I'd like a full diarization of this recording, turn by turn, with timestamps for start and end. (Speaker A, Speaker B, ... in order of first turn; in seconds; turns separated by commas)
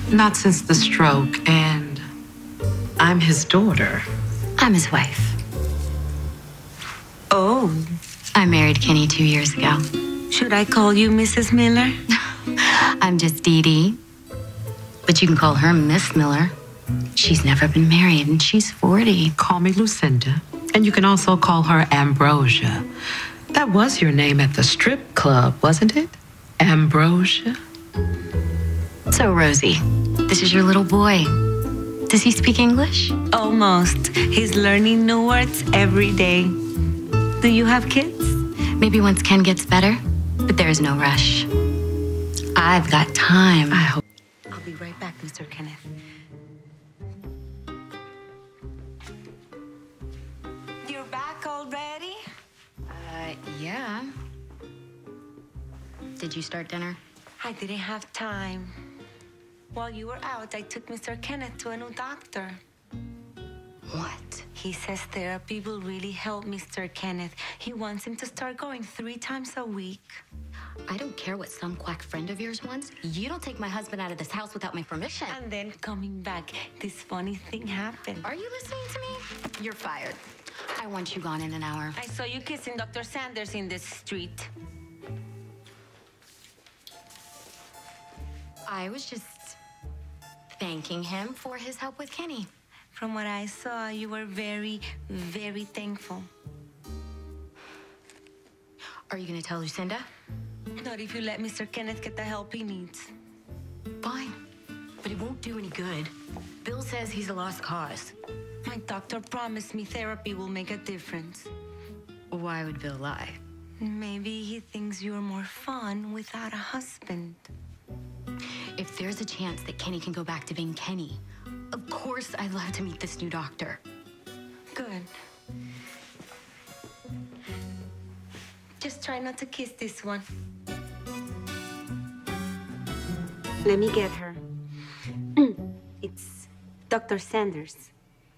Speaker A: 0.1-2.0, Speaker A: 3.0-4.0, Speaker B: 4.6-5.4, Speaker C: 7.3-7.9, Speaker B: 8.3-9.8, Speaker C: 10.3-12.0, Speaker B: 12.1-14.0, Speaker B: 15.1-16.5, Speaker B: 17.2-19.4, Speaker A: 19.4-22.9, Speaker A: 23.5-27.6, Speaker B: 29.1-31.4, Speaker B: 32.1-33.2, Speaker C: 33.3-36.6, Speaker C: 37.4-38.4, Speaker B: 38.8-41.5, Speaker B: 42.5-44.0, Speaker C: 44.5-45.8, Speaker C: 50.8-52.2, Speaker B: 52.9-54.1, Speaker B: 56.2-57.0, Speaker C: 57.4-58.7, Speaker C: 59.7-62.6, Speaker B: 63.9-64.5, Speaker C: 64.5-70.2, Speaker B: 70.9-75.4, Speaker C: 75.3-78.2, Speaker B: 78.2-82.0, Speaker C: 82.0-84.5, Speaker B: 88.7-89.6, Speaker B: 90.5-92.5, Speaker C: 92.9-96.3, Speaker B: 99.1-100.1, Speaker C: 100.8-103.1, Speaker B: 104.0-104.3, Speaker B: 105.0-106.1, Speaker B: 106.6-108.2, Speaker C: 108.7-111.5, Speaker B: 112.3-113.4, Speaker C: 113.8-117.5, Speaker B: 118.8-121.2, Speaker B: 121.7-123.8, Speaker C: 124.7-125.1, Speaker C: 128.8-130.3, Speaker C: 133.6-134.4, Speaker C: 135.4-137.9